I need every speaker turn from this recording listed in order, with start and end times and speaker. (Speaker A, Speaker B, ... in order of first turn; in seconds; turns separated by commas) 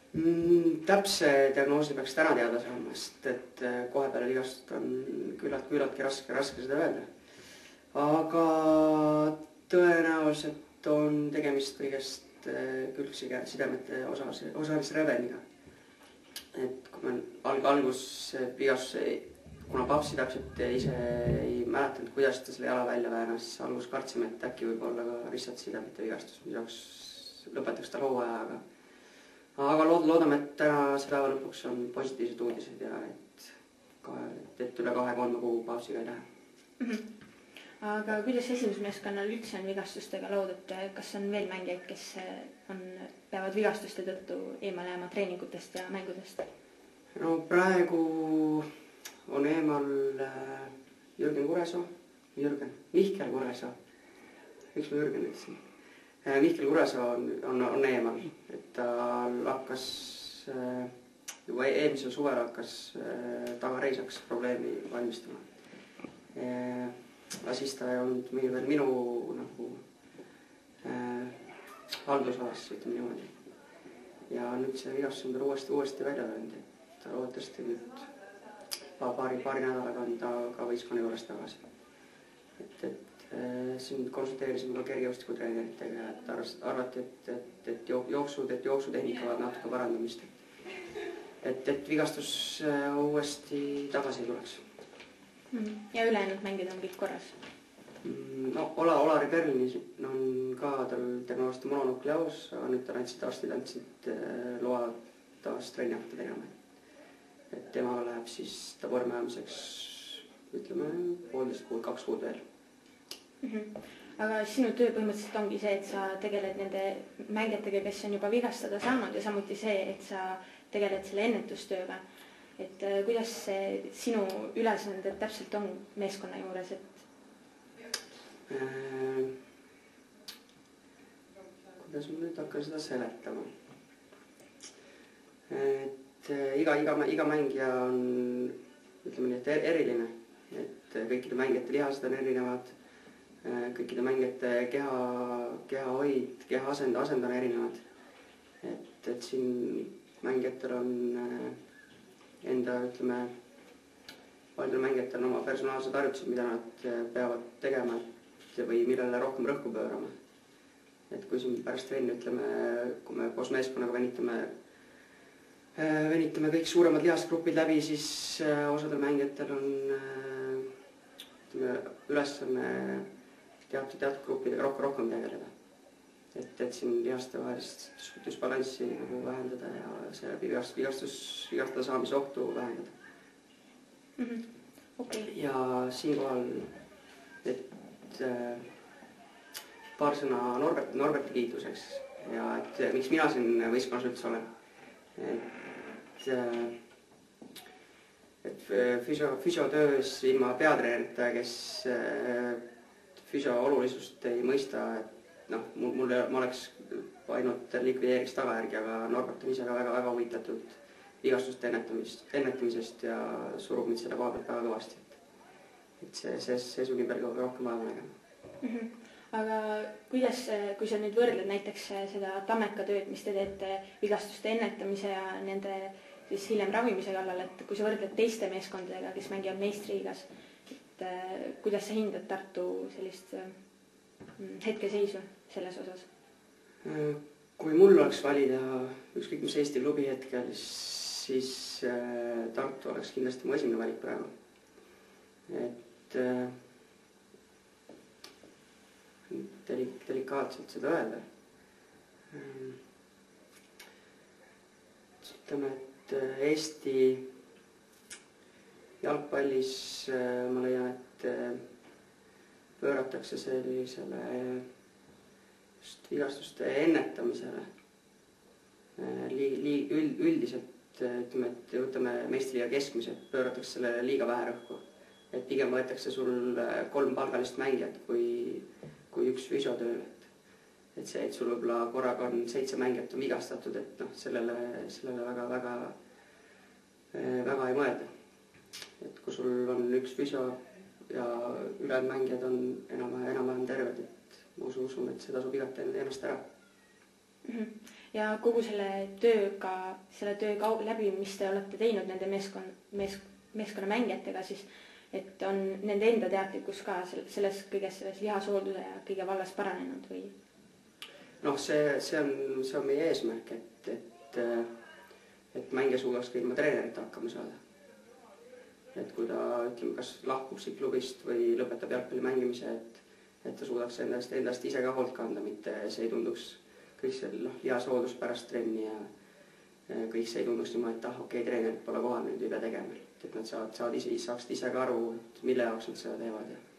Speaker A: 0.1-7.0, Speaker A: 7.9-15.4, Speaker A: 16.5-28.6, Speaker A: 29.6-36.2, Speaker B: 36.8-37.0, Speaker B: 37.8-46.5, Speaker A: 47.1-48.7, Speaker A: 49.3-53.7, Speaker A: 54.7-55.6, Speaker A: 56.2-60.9, Speaker A: 61.5-65.5, Speaker A: 66.3-69.8, Speaker A: 70.8-71.5, Speaker A: 72.0-73.3, Speaker A: 74.3-78.0, Speaker A: 79.0-81.6, Speaker A: 82.6-90.3, Speaker A: 91.4-94.6, Speaker B: 95.5-97.4, Speaker A: 98.0-106.5, Speaker A: 107.5-112.4, Speaker B: 113.4-122.0, Speaker B: 122.6-127.0, Speaker A: 128.5-129.3, Speaker A: 131.8-133.5, Speaker A: 135.5-142.7, Speaker A: 143.4-147.8, Speaker A: 148.6-151.6, Speaker A: 152.4-153.3, Speaker A: 154.6-160.1, Speaker A: 161.1-164.5, Speaker A: 165.7-170.7, Speaker A: 171.5-173.0, Speaker A: 173.7-175.5, Speaker A: 176.3-182.9, Speaker B: 184.2-185.3, Speaker A: 185.3-186.7, Speaker A: 187.4-188.7, Speaker A: 189.9-194.4, Speaker A: 195.2-195.5, Speaker A: 196.1-196.7, Speaker A: 198.4-202.6, Speaker A: 203.2-215.2, Speaker A: 216.0-218.1, Speaker B: 218.6-233.6, Speaker B: 234.3-236.1, Speaker A: 236.8-244.3, Speaker A: 245.5-246.5, Speaker A: 249.3-251.2, Speaker A: 252.3-252.8, Speaker A: 255.2-257.2, Speaker A: 259.0-261.6, Speaker A: 262.8-264.6, Speaker A: 265.8-267.6, Speaker A: 269.0-280.3, Speaker A: 280.9-285.9, Speaker A: 287.1-288.1, Speaker A: 289.0-290.6, Speaker A: 291.1-296.4, Speaker B: 297.4-310.3, Speaker A: 311.4-314.7, Speaker A: 315.5-317.6, Speaker A: 318.9-329.1, Speaker A: 329.9-336.6